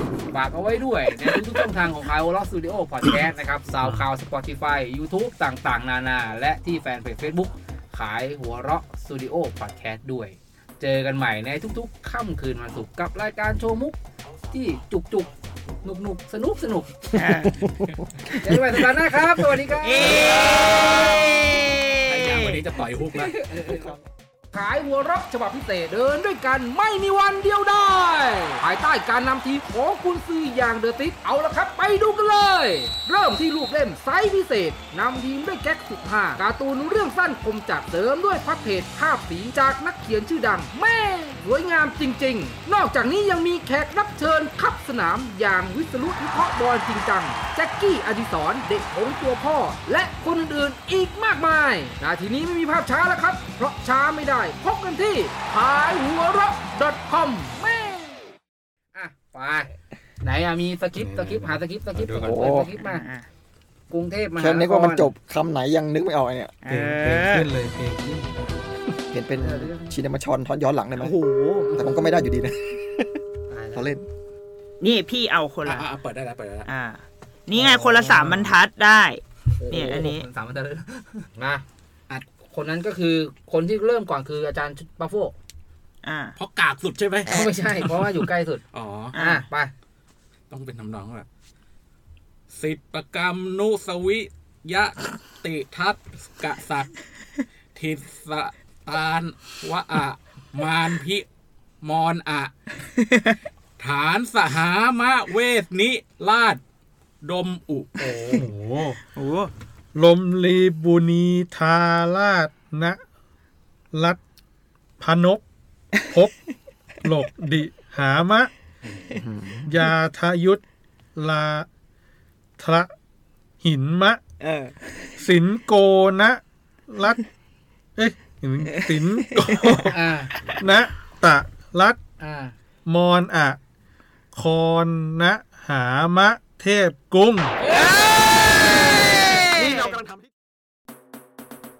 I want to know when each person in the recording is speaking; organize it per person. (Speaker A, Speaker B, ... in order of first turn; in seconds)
Speaker A: 0.3-14.0, 14.5-15.3, 15.8-17.1, 18.3-21.2, 23.1-23.9, 24.5-58.2, 58.9-59.7, 60.2-63.0, 63.9-65.1, 69.3-69.9, 71.6-72.0, 73.5-73.9, 77.5-78.5, 79.6-81.6, 82.3-85.3, 87.2-88.6, 89.1-89.7, 129.9-130.3, 132.2-132.5
Speaker B: 17.1-17.6, 19.8-22.6, 62.8-63.3, 66.6-67.5, 71.0-71.7, 74.8-75.9, 76.7-80.2, 86.0-86.3, 89.1-89.4, 103.1-103.3, 108.0-108.4, 109.1-109.5, 124.4-125.1, 128.7-129.9, 138.0-139.9
Speaker C: 17.4-17.8, 62.2-62.7, 64.4-66.5, 69.1-71.2, 71.7-73.2, 73.7-74.0, 119.2-119.7, 139.5-140.3
Speaker D: 20.0-21.0, 22.0-23.3, 75.6-76.7, 86.3-88.2, 88.7-89.2, 90.5-91.3, 92.5-96.9, 97.7-101.2, 101.8-102.5, 103.8-106.6, 107.2-108.3
Speaker E: 60.9-62.4, 66.7-68.5, 108.3-109.0, 109.9-113.0, 113.9-114.2, 115.0-115.4, 117.0-118.5, 119.7-120.6, 121.2-121.7, 122.6-122.9, 123.6-124.2, 125.2-127.2, 128.0-130.0, 130.6-132.0, 132.8-133.6, 134.3-137.5